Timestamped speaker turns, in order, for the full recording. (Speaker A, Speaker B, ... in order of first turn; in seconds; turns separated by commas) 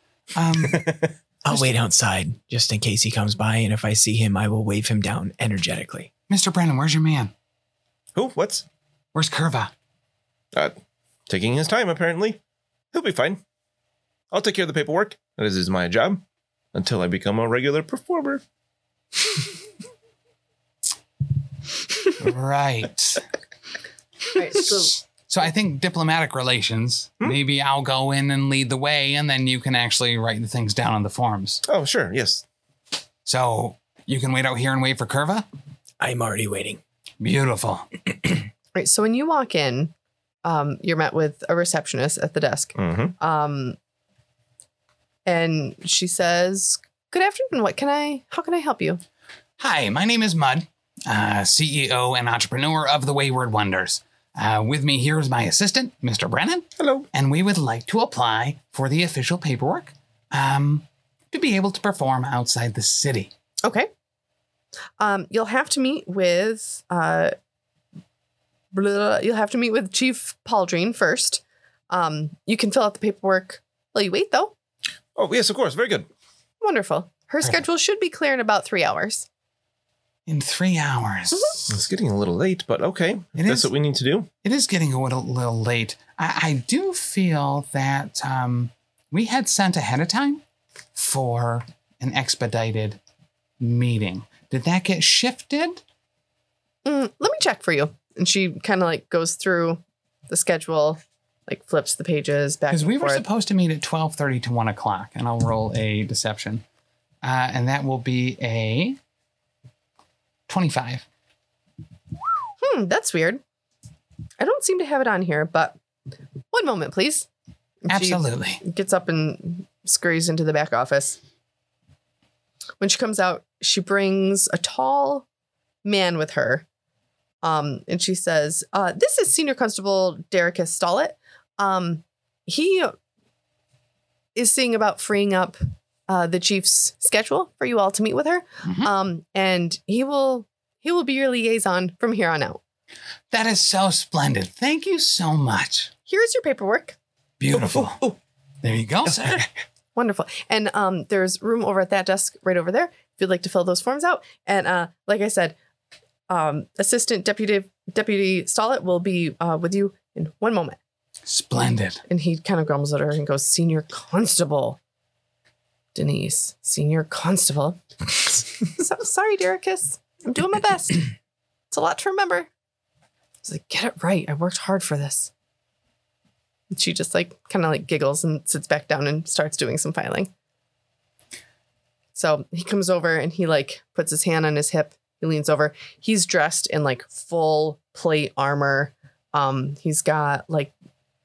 Speaker A: 0.3-1.6, Speaker B: 1.4-6.1, Speaker A: 6.3-7.3, Speaker C: 8.1-8.6, Speaker A: 9.1-9.7, Speaker C: 11.3-12.4, Speaker C: 12.9-13.4, Speaker C: 14.3-18.4, Speaker A: 22.2-23.2, Speaker D: 24.3-24.9, Speaker A: 25.2-31.6, Speaker C: 31.7-32.4, Speaker A: 33.2-35.4, Speaker B: 36.0-36.8, Speaker A: 37.2-37.9, Speaker D: 38.7-39.9, Speaker D: 40.4-43.8, Speaker C: 42.8-43.1, Speaker D: 45.2-49.0, Speaker A: 49.6-63.3, Speaker C: 56.8-57.0, Speaker D: 63.6-63.9, Speaker D: 65.0-67.3, Speaker D: 68.7-74.5, Speaker C: 75.2-76.1, Speaker D: 76.6-79.2, Speaker A: 80.3-81.7, Speaker C: 81.7-84.3, Speaker A: 83.3-83.7, Speaker A: 84.4-90.4, Speaker A: 90.9-93.0, Speaker A: 93.6-95.8, Speaker D: 96.8-103.2, Speaker A: 102.7-106.6, Speaker A: 107.2-109.0, Speaker A: 110.5-111.0, Speaker D: 112.6-113.4, Speaker D: 114.4-115.8, Speaker D: 116.5-117.3, Speaker D: 117.8-121.2, Speaker A: 117.9-118.6, Speaker D: 122.8-125.2, Speaker D: 125.8-126.6, Speaker D: 127.4-132.9, Speaker D: 134.3-142.6, Speaker A: 138.6-138.9, Speaker A: 143.3-145.9, Speaker D: 146.1-146.9, Speaker A: 147.4-148.0, Speaker C: 147.5-147.8, Speaker A: 148.6-149.5, Speaker D: 149.9-155.6, Speaker D: 156.3-160.8, Speaker A: 161.3-162.0, Speaker D: 162.1-164.8, Speaker D: 165.9-167.8, Speaker D: 168.6-171.1, Speaker D: 171.7-172.5, Speaker D: 173.4-175.3, Speaker D: 176.7-180.3, Speaker D: 182.1-190.7